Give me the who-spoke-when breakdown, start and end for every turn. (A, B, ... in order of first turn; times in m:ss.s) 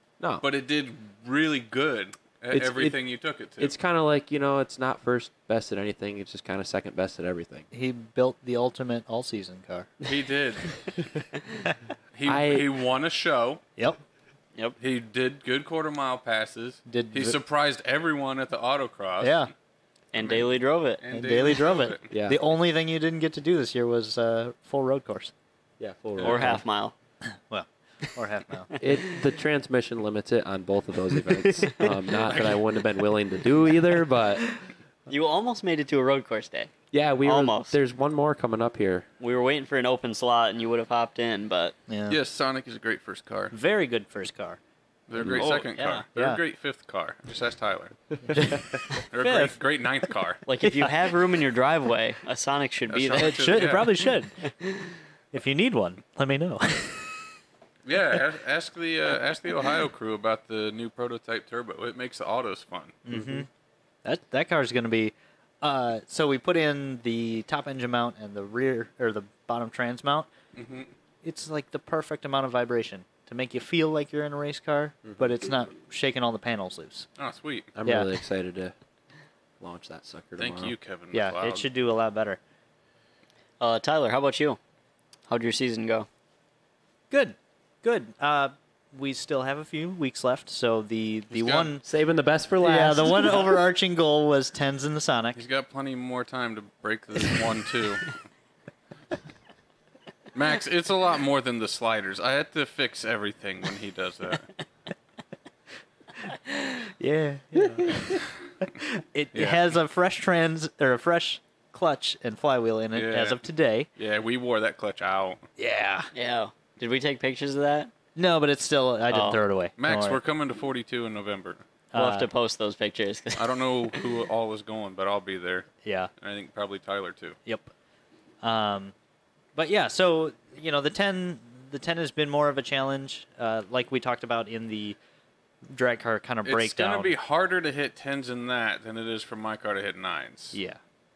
0:00.4-0:03.7 A
0:02.5-0:03.0 B
0:03.6-0:07.7 B
0:07.7-0:09.9 C
0:10.0-0:10.8 A
0:12.1-0:13.6 A
0:12.2-0:12.7 B
0:14.8-0:19.4 A
0:16.9-0:17.4 C
0:19.2-0:19.5 C
0:20.1-0:21.0 D
0:20.2-0:22.1 A
0:21.1-0:25.3 C
0:22.1-0:22.4 B
0:25.8-0:26.6 B
0:26.2-0:26.5 A
0:26.2-0:26.9 D
0:27.5-0:28.7 C
0:28.8-0:34.4 B
0:32.2-0:32.6 A
0:35.1-0:36.7 D
0:36.9-0:39.1 B
0:37.2-0:37.8 D
0:39.2-0:41.8 D
0:41.9-0:42.2 C
0:42.1-0:43.5 A
0:43.5-0:44.6 C
0:45.1-0:48.0 A
0:45.2-0:45.5 B
0:45.4-0:46.4 C
0:45.4-0:45.9 D
0:48.3-0:49.6 C
0:49.0-0:50.4 A
0:50.5-0:53.8 D
0:50.6-0:51.0 C
0:52.9-0:54.0 A
0:53.2-0:54.3 C
0:55.3-0:57.1 C
0:57.8-1:03.0 A
1:03.1-1:03.5 C
1:03.1-1:03.4 B
1:04.0-1:10.3 C
1:10.6-1:10.9 A
1:11.2-1:17.1 C
1:15.0-1:15.3 B
1:17.2-1:17.7 A
1:17.8-1:18.7 B
1:19.6-1:20.8 B
1:20.4-1:21.7 A
1:21.1-1:22.4 C
1:23.6-1:24.6 D
1:25.3-1:26.1 D
1:27.1-1:31.8 C
1:31.3-1:31.7 A
1:31.8-1:33.5 B
1:32.6-1:35.4 C
1:35.4-1:38.2 A
1:40.3-1:44.5 A
1:46.9-1:53.9 C
1:49.4-1:49.6 A
1:52.9-1:53.4 A
1:54.0-1:55.4 A
1:55.6-1:56.1 C
1:56.1-1:57.9 D
1:58.2-2:00.2 C
1:59.1-1:59.4 D
1:59.8-2:01.6 A
2:01.9-2:02.3 C
2:02.0-2:03.6 D
2:03.4-2:05.7 A
2:05.8-2:06.1 C
2:06.2-2:07.4 A
2:07.5-2:07.7 C
2:08.4-2:08.9 C
2:09.6-2:15.0 C
2:15.7-2:17.1 C
2:16.4-2:20.6 A
2:20.5-2:20.8 C